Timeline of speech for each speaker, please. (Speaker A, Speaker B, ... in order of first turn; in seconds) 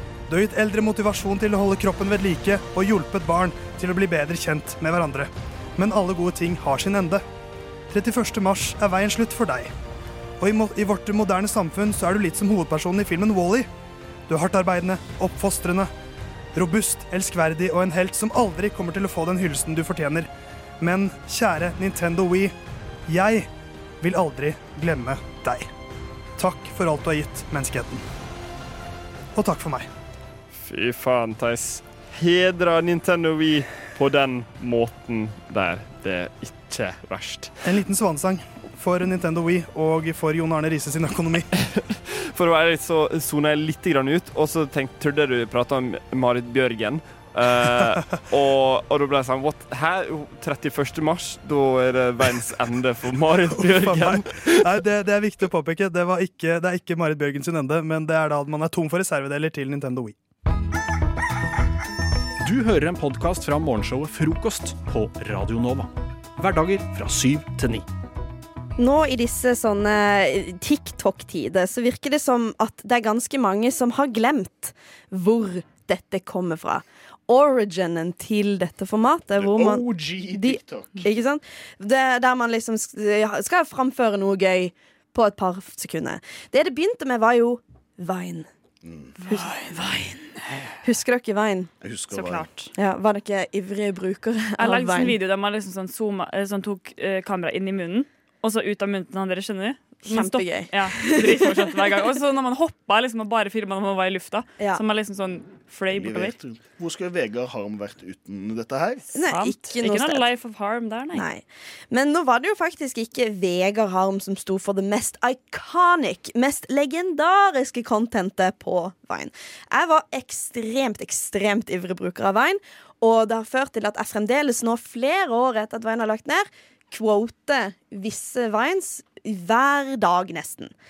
Speaker A: 0.3-7.2, 7.9-9.7, 10.4-13.7, 14.3-15.9, 16.5-20.3, 20.8-22.5, 23.1-23.5, 24.0-25.7, 26.4-28.0, 29.3-29.9, 37.6-41.5, 53.5-60.1
Speaker B: 30.5-37.5, 41.6-54.6
Speaker C: 62.4-67.8
Speaker D: 68.8-88.5, 89.3-89.5, 90.8-91.7, 92.7-95.2, 100.0-102.0, 109.1-110.2, 111.1-130.7
Speaker E: 79.3-81.1, 88.8-89.1, 91.8-92.5, 105.9-109.0
Speaker F: 89.2-90.4, 92.1-92.7, 94.6-106.3, 109.1-111.2